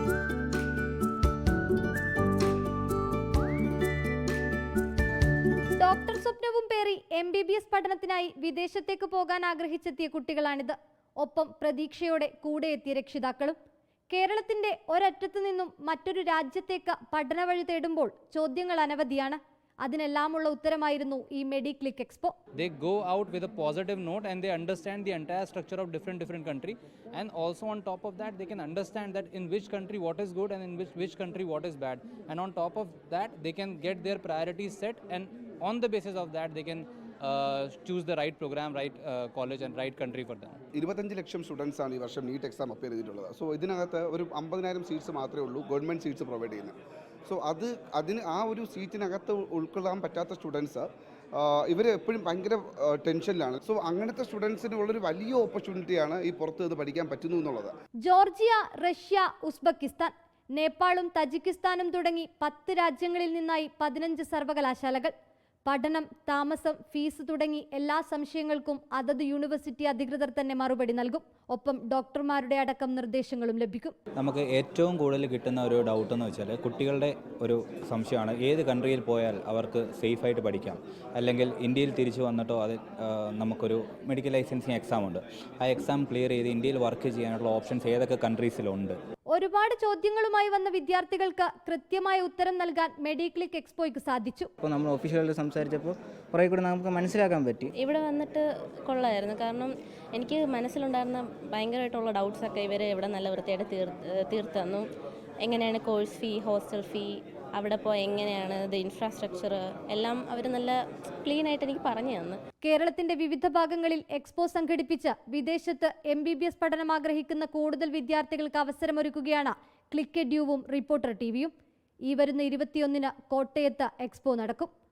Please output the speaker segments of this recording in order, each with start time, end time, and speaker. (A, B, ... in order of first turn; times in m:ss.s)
0:05.8-0:13.6 A
0:14.1-0:22.4 A
0:22.6-0:40.6 B
0:40.8-0:57.7 C
0:58.0-1:05.1 A
1:05.7-1:14.0 A
1:14.2-1:29.0 D
1:29.3-1:34.5 A
1:34.6-1:37.7 E
1:37.8-1:44.8 F
1:45.4-1:52.4 F
1:52.6-2:01.5 A
2:02.1-2:04.7 A